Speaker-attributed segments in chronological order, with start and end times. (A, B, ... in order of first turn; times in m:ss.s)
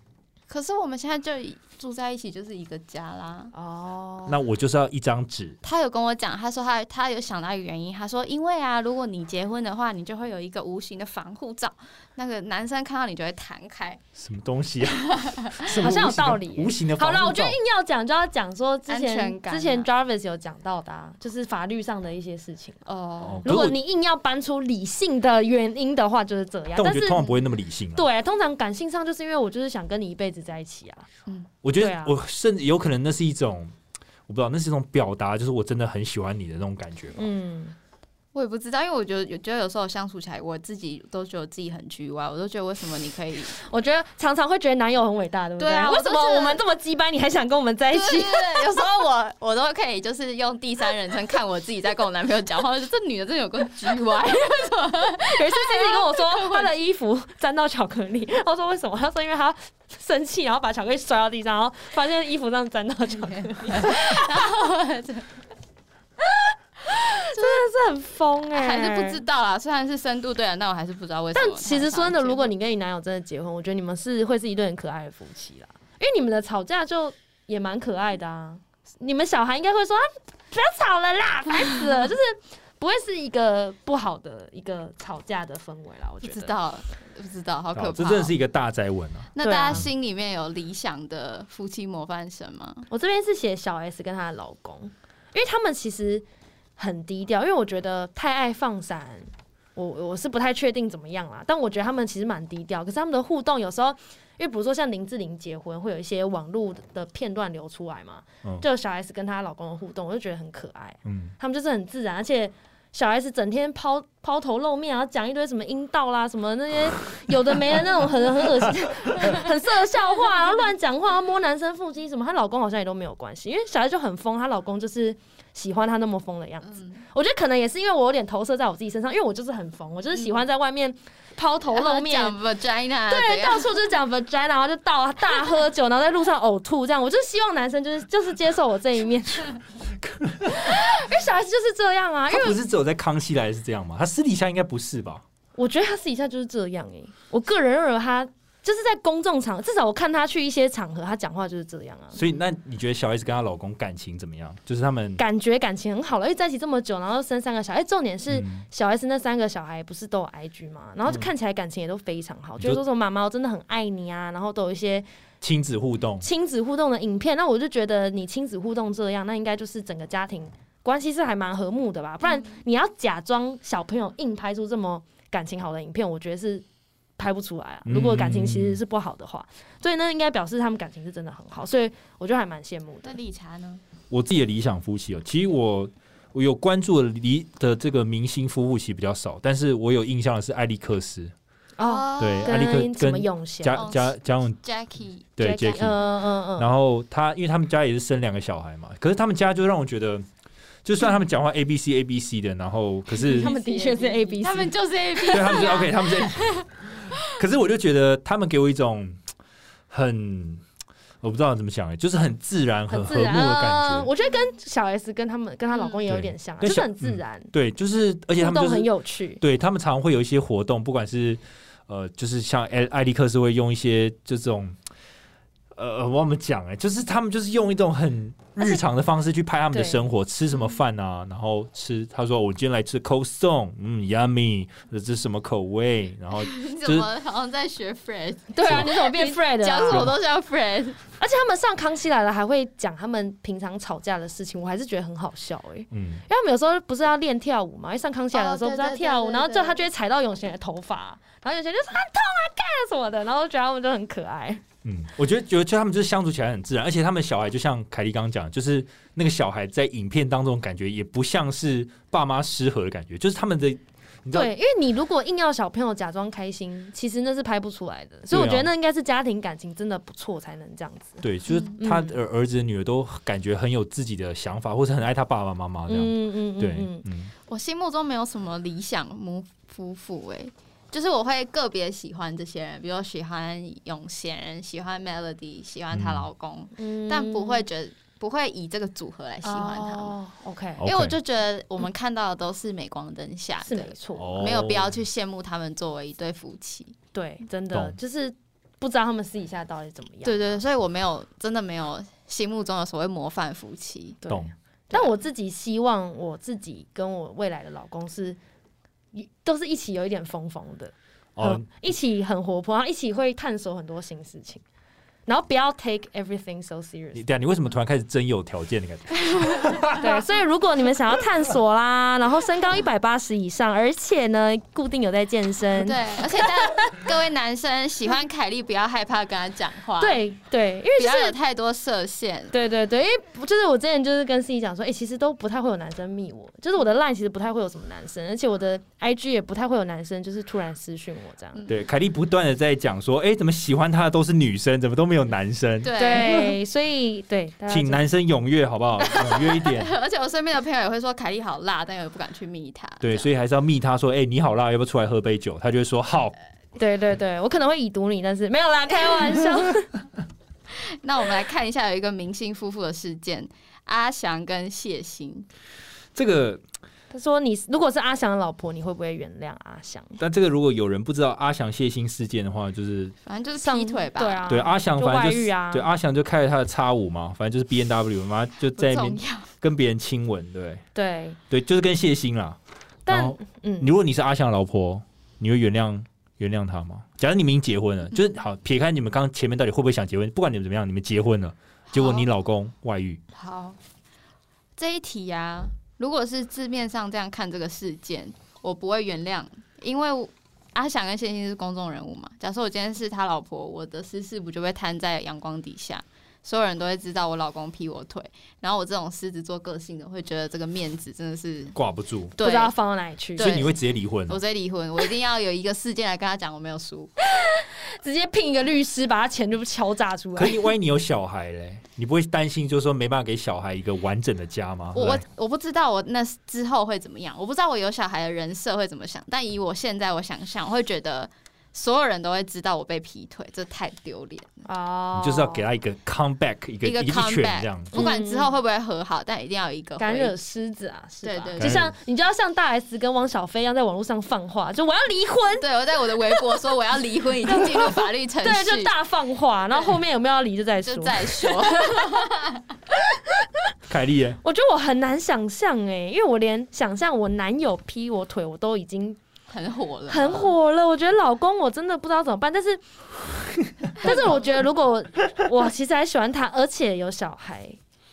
0:00.5-0:03.5 A
0:03.5-0:04.4 B
0:04.3-0:05.6 C
0:05.6-0:14.0 A
0:14.2-0:17.6 C
0:14.9-0:15.7 A
0:15.7-0:22.8 B
0:18.9-0:19.9 A
0:22.8-0:23.5 A
0:23.2-0:23.8 C
0:23.4-0:27.3 B
0:26.8-0:28.0 C
0:27.9-0:31.1 B
0:31.6-0:33.7 C
0:31.8-0:32.2 B
0:34.3-0:37.3 C
0:37.2-0:37.7 B
0:38.3-0:43.6 A
0:43.6-0:48.9 B
0:45.6-0:46.6 A
0:47.9-0:56.7 A
0:55.0-1:04.5 B
1:03.2-1:05.3 A
1:06.2-1:09.2 B
1:07.3-1:07.6 A
1:08.5-1:12.5 A
1:11.3-1:26.5 B
1:26.2-1:28.3 A
1:27.7-1:29.9 C
1:29.3-1:32.9 A
1:29.4-1:29.8 B
1:32.9-1:36.2 B
1:36.8-2:12.4 B
1:51.0-1:51.3 C
2:06.7-2:07.0 A
2:11.7-2:13.7 A
2:13.1-2:19.5 B
2:20.0-2:20.8 C
2:20.4-2:22.6 B
2:22.3-2:25.2 C
2:25.6-2:32.2 B
2:32.1-2:35.2 C
2:35.2-2:45.1 B
2:38.3-2:38.6 C
2:45.4-2:46.2 C
2:46.2-2:56.6 B
2:52.2-2:52.6 A
2:57.2-3:03.2 B
2:57.8-2:58.8 C
3:03.0-3:03.8 A
3:04.1-3:11.3 C
3:11.8-3:13.8 B
3:11.8-3:12.6 A
3:12.2-3:14.6 C
3:13.7-3:15.3 A
3:15.4-3:20.2 C
3:15.4-3:16.7 B
3:20.8-3:23.5 C
3:23.1-3:26.0 B
3:23.2-3:26.6 A
3:25.3-3:29.2 C
3:29.9-3:30.6 C
3:31.2-3:34.1 C
3:32.9-3:37.5 B
3:35.7-3:36.0 A
3:36.1-3:38.9 C
3:38.4-3:39.4 B
3:39.4-3:44.8 C
3:45.7-3:57.1 C
3:49.7-3:50.0 B
3:56.3-4:01.0 A
3:58.5-4:00.1 B
3:58.6-3:58.9 C
3:59.8-4:00.2 C
4:01.2-4:14.6 B
4:05.9-4:06.2 C
4:08.3-4:09.8 A
4:14.8-4:24.5 C
4:24.3-4:31.2 B
4:28.3-4:28.7 C
4:31.2-4:37.3 C
4:31.8-4:32.1 B
4:35.9-4:37.0 B
4:37.5-4:50.2 A
4:45.9-4:46.3 C
4:46.8-4:47.6 B
4:49.4-4:50.8 B
4:50.8-4:51.2 C
4:50.8-4:56.9 A
4:53.6-4:54.6 B
4:54.2-4:55.0 C
4:57.1-5:00.6 B
5:00.2-5:04.2 A
5:04.2-5:08.4 B
5:09.1-5:14.6 B
5:11.4-5:11.6 C
5:15.2-5:17.2 B
5:17.1-5:20.1 C
5:19.2-5:19.9 A
5:19.9-5:27.0 B
5:25.7-5:30.2 A
5:30.0-5:31.4 B
5:31.0-5:32.5 A
5:32.5-5:41.6 B
5:41.7-5:46.4 C
5:45.8-5:46.5 A
5:46.0-5:48.0 B
5:47.7-5:49.9 C
5:49.0-5:53.3 A
5:53.0-5:56.4 C
5:56.8-5:59.9 B
6:00.7-6:05.5 A
6:06.1-6:06.6 C
6:07.1-6:10.2 B
6:10.2-6:13.1 C
6:13.2-6:14.4 A
6:13.6-6:15.9 B
6:14.5-6:20.8 C
6:18.7-6:19.5 A
6:20.9-6:21.4 B
6:21.5-6:33.2 C
6:23.0-6:23.9 B
6:31.9-6:32.3 A
6:33.3-6:33.8 A
6:34.8-6:51.8 A
6:51.7-6:52.4 C
6:52.4-6:52.7 A
6:52.4-6:53.6 B
6:53.4-6:53.8 A
6:53.4-6:54.4 C
6:54.3-6:57.1 A
6:57.4-7:00.6 B
7:00.4-7:05.2 C
7:04.9-7:14.6 A
7:14.6-7:15.6 B
7:15.1-7:17.9 C
7:16.8-7:20.3 A
7:17.9-7:18.5 B
7:20.0-7:25.6 B
7:21.2-7:21.8 A
7:21.6-7:21.9 C
7:25.6-7:28.9 A
7:27.4-7:32.3 B
7:30.8-7:32.6 A
7:32.9-7:33.6 B
7:33.9-7:34.4 C
7:34.4-7:39.2 B
7:39.5-7:40.5 A
7:40.1-7:42.8 B
7:44.0-7:47.8 B
7:44.0-7:44.3 A